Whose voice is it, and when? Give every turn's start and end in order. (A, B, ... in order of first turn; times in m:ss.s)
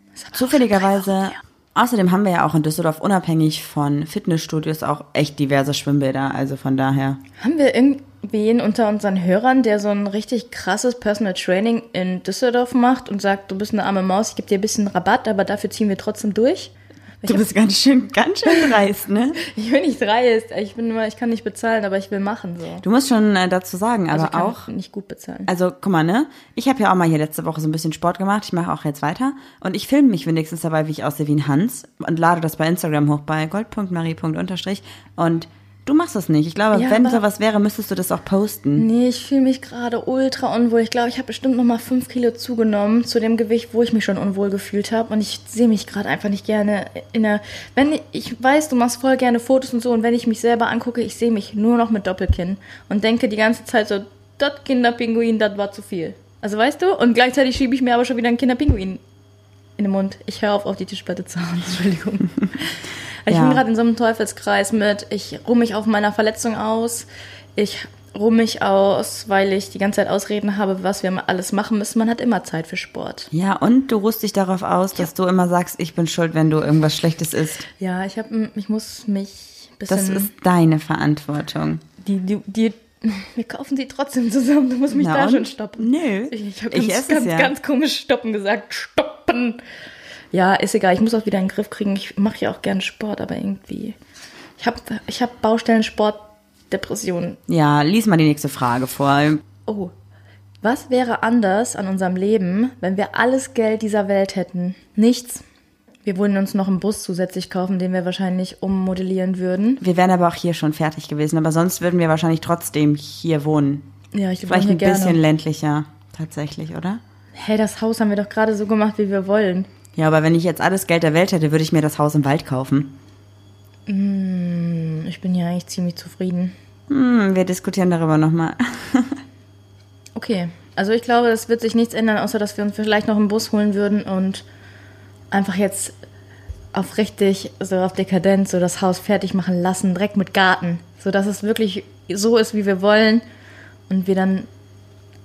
0:00.2-0:01.4 A
0:00.3-0:07.2 B
0:07.4-0:17.5 A
0:17.2-0:19.4 B
0:18.5-0:18.7 A
0:19.4-0:22.8 A
0:22.8-0:24.6 B
0:24.1-0:25.5 A
0:25.4-0:38.8 B
0:36.7-0:37.2 A
0:38.8-0:59.0 A
0:59.8-1:13.3 A
1:03.3-1:03.6 B
1:13.3-1:17.6 B
1:17.8-1:20.3 A
1:19.9-1:21.8 B
1:22.0-1:29.6 A
1:24.9-1:27.5 B
1:30.3-1:34.0 A
1:34.6-1:37.4 A
1:37.5-1:39.4 B
1:39.6-1:39.9 A
1:40.6-1:45.4 A
1:46.0-1:49.8 A
1:49.8-1:53.8 B
1:54.1-1:55.2 A
1:54.5-1:57.0 B
1:57.4-1:59.7 A
1:59.9-2:02.9 B
2:03.9-2:06.5 A
2:06.9-2:09.2 B
2:10.2-2:14.4 A
2:15.3-2:16.0 A
2:16.7-2:23.2 A
2:23.9-2:24.5 A